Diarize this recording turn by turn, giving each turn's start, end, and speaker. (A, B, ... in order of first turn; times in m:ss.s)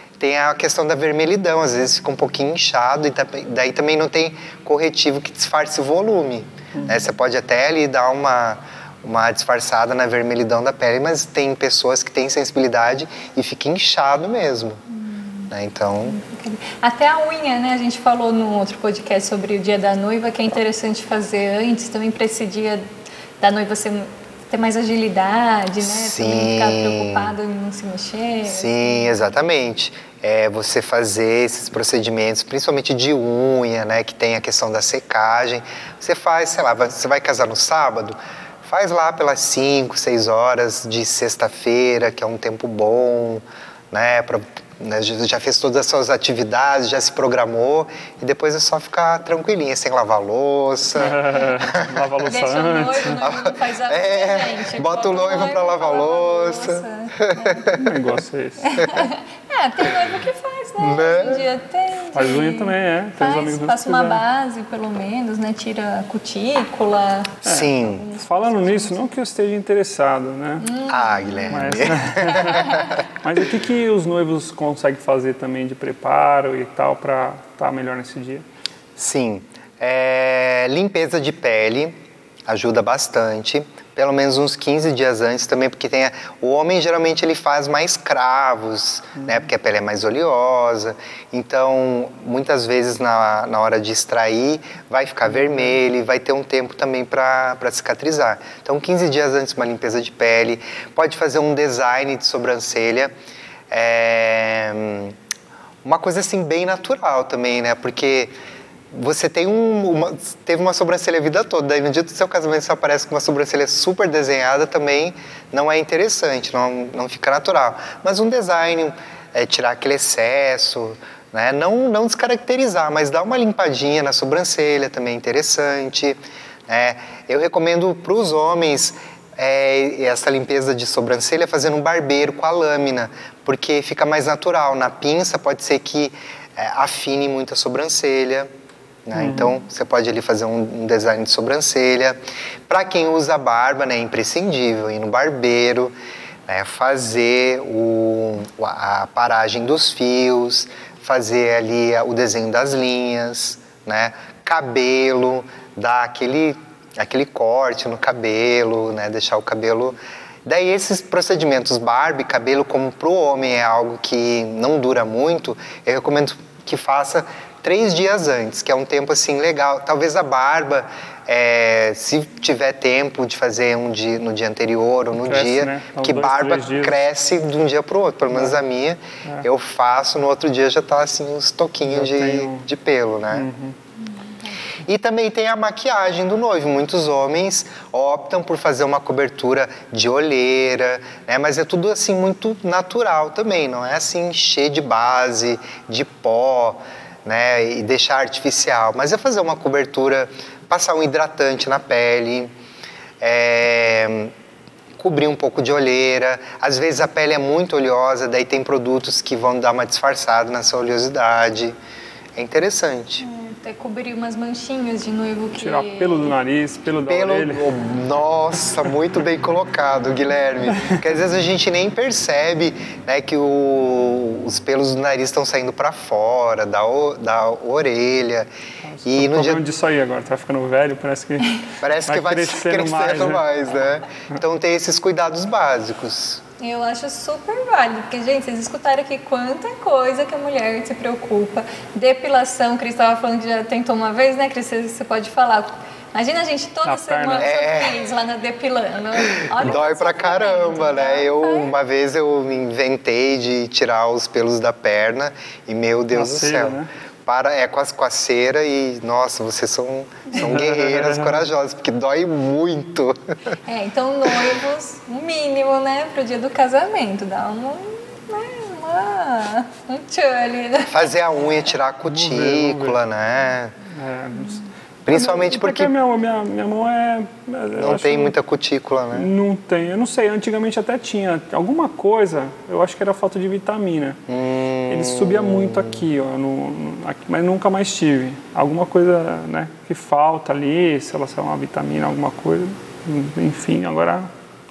0:00.2-0:14.8 A
0:15.0-0:15.5 B
0:15.5-0:16.2 A
0:16.1-0:22.9 B
0:23.4-0:29.3 B
0:25.8-0:27.3 A
0:28.5-0:52.2 A
0:51.0-0:53.2 C
0:52.3-0:57.7 B
0:53.2-0:58.0 A
0:57.7-0:58.9 C
0:58.6-1:09.1 B
0:58.8-0:59.1 A
1:00.8-1:01.4 A
1:02.1-1:04.2 C
1:07.4-1:08.1 A
1:07.4-1:10.7 C
1:10.6-1:12.9 B
1:10.9-1:13.1 A
1:11.5-1:18.5 C
1:19.0-1:22.0 A
1:22.5-1:43.1 A
1:35.4-1:35.7 C
1:43.7-1:45.2 A
1:45.8-1:48.3 A
1:48.9-2:18.5 A
2:19.1-2:26.0 A
2:19.2-2:19.6 C
2:26.5-3:03.5 A
2:55.2-2:57.1 C
3:01.9-3:02.7 C
3:03.3-3:03.8 C
3:04.8-3:22.5 A
3:23.2-3:24.3 A
3:25.0-3:31.8 A
3:32.4-3:33.2 A
3:33.2-3:36.3 B
3:35.6-3:37.7 C
3:37.1-3:48.5 A
3:48.9-3:53.4 C
3:49.0-3:49.6 A
3:51.8-3:56.4 A
3:56.6-4:11.8 B
4:06.9-4:07.5 C
4:07.4-4:08.0 A
4:09.4-4:23.5 A
4:16.1-4:16.9 C
4:20.4-4:21.4 C
4:23.7-4:31.1 B
4:30.9-4:33.7 A
4:32.1-4:33.0 C
4:33.9-4:38.4 C
4:35.1-4:35.9 A
4:37.8-4:39.3 A
4:39.1-4:44.2 C
4:44.3-4:46.0 A
4:44.9-4:54.3 C